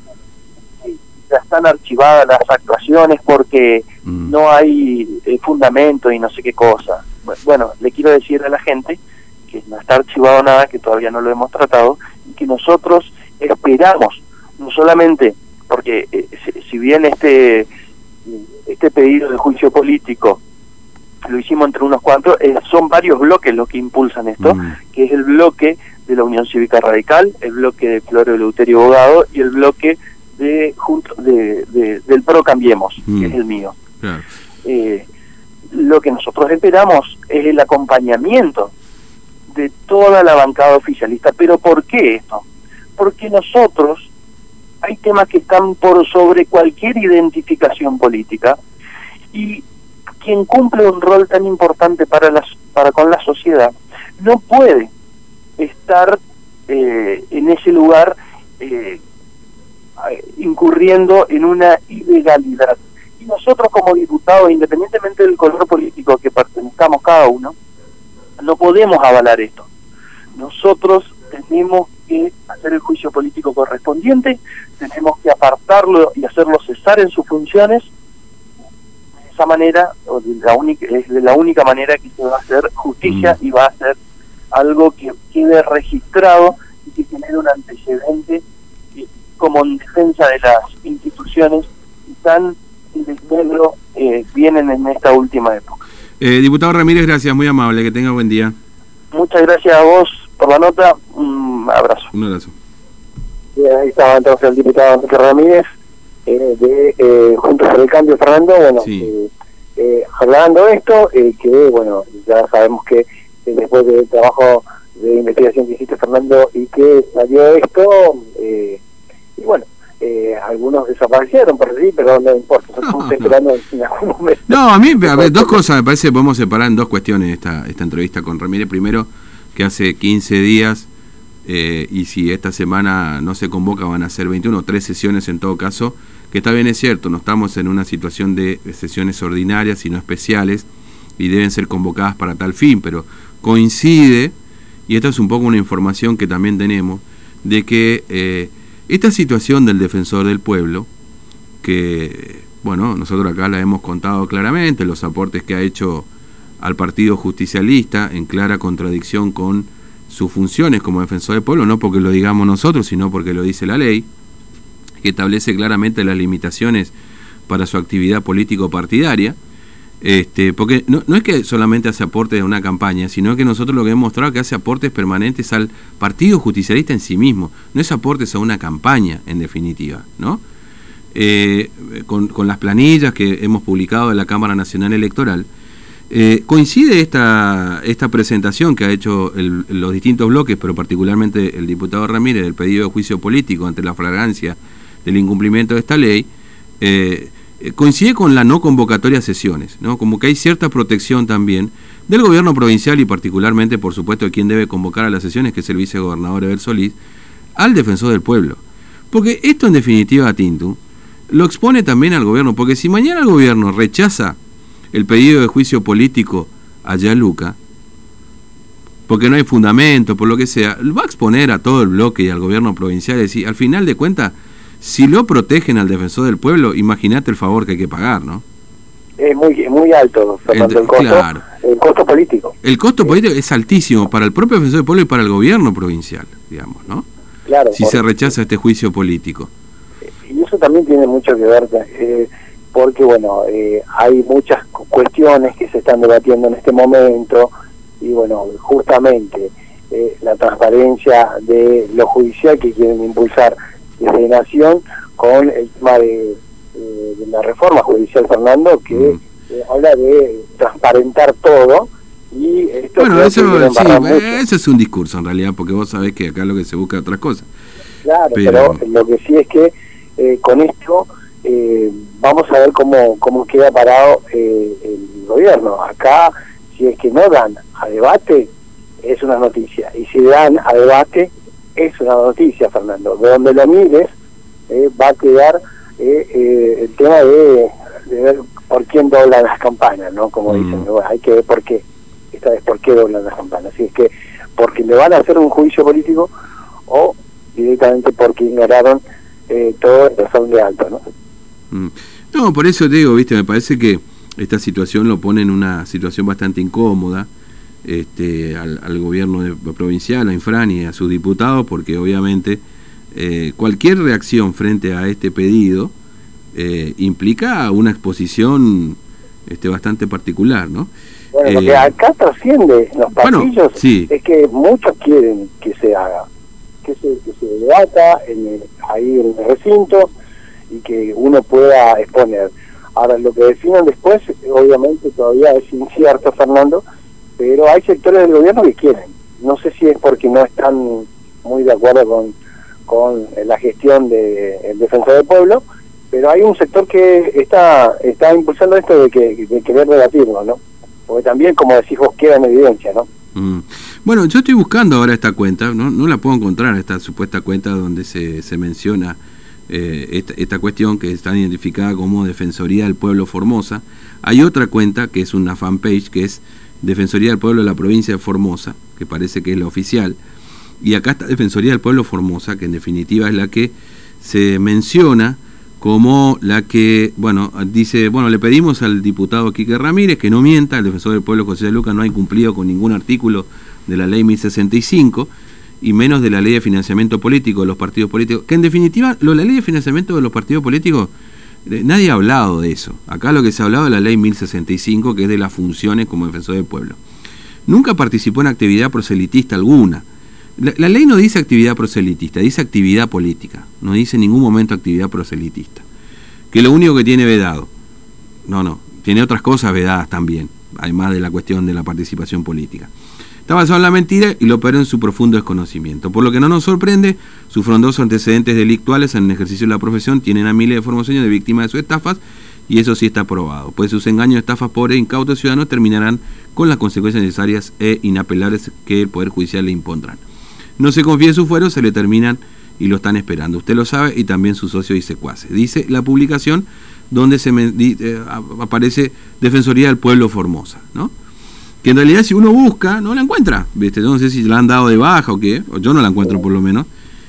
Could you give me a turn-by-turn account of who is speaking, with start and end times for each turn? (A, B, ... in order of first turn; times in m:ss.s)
0:00.8-0:17.7 A
0:04.0-0:04.3 B
0:18.2-0:20.4 A
0:21.2-0:33.8 A
0:24.4-0:24.8 B
0:33.0-0:33.4 B
0:34.0-0:34.3 B
0:34.6-0:35.0 A
0:35.7-0:38.7 A
0:39.5-0:42.4 A
0:43.0-0:44.1 A
0:44.8-0:48.6 A
0:49.3-0:49.6 A
0:50.2-0:54.9 A
0:55.6-0:59.0 A
1:00.0-1:07.5 A
1:08.4-1:09.7 A
1:10.3-1:17.8 A
1:19.2-1:24.0 A
1:23.0-1:23.4 B
1:24.5-1:28.4 A
1:28.9-1:35.8 A
1:36.2-1:38.5 B
1:39.1-1:42.1 A
1:42.1-1:42.5 B
1:43.5-1:45.6 C
1:46.2-1:58.8 C
1:48.8-1:49.1 B
1:59.4-2:05.6 C
2:02.8-2:03.3 B
2:04.5-2:10.9 B
2:11.4-2:24.3 B
2:24.9-2:30.9 B
2:31.6-2:36.1 B
2:36.6-2:44.1 B
2:45.0-2:46.9 B
2:47.5-2:49.4 B
2:50.0-3:00.4 B
3:01.1-3:05.4 B
3:06.1-3:16.3 B
3:16.8-3:27.0 B
3:27.6-3:30.8 B
3:31.3-3:34.4 B
3:34.9-3:37.6 B
3:39.1-3:48.4 B
3:49.2-3:52.5 C
3:50.5-3:51.4 B
3:52.6-3:57.0 B
3:57.4-3:58.2 C
3:57.7-3:59.5 B
4:00.2-4:07.5 C
4:08.0-4:24.4 C
4:18.9-4:19.2 B
4:23.0-4:27.5 B
4:28.0-4:38.5 C
4:28.3-4:28.8 B
4:39.0-4:44.1 C
4:44.7-4:56.3 C
4:50.5-4:50.8 B
4:56.9-5:01.0 C
5:01.7-5:07.3 B
5:07.8-5:15.9 B
5:16.5-5:20.9 B
5:21.3-5:26.2 C
5:21.4-5:21.9 B
5:23.2-5:24.1 B
5:26.8-5:30.1 C
5:30.7-5:36.8 C
5:37.4-5:42.3 C
5:42.9-5:53.0 C
5:53.3-6:10.2 B
6:10.8-6:31.1 B
6:31.6-6:37.0 B
6:37.7-6:40.0 B
6:40.6-6:45.8 B
6:46.5-6:47.7 B
6:48.4-6:52.9 B
6:53.5-7:10.2 B
7:10.8-7:21.1 B
7:21.8-7:26.9 B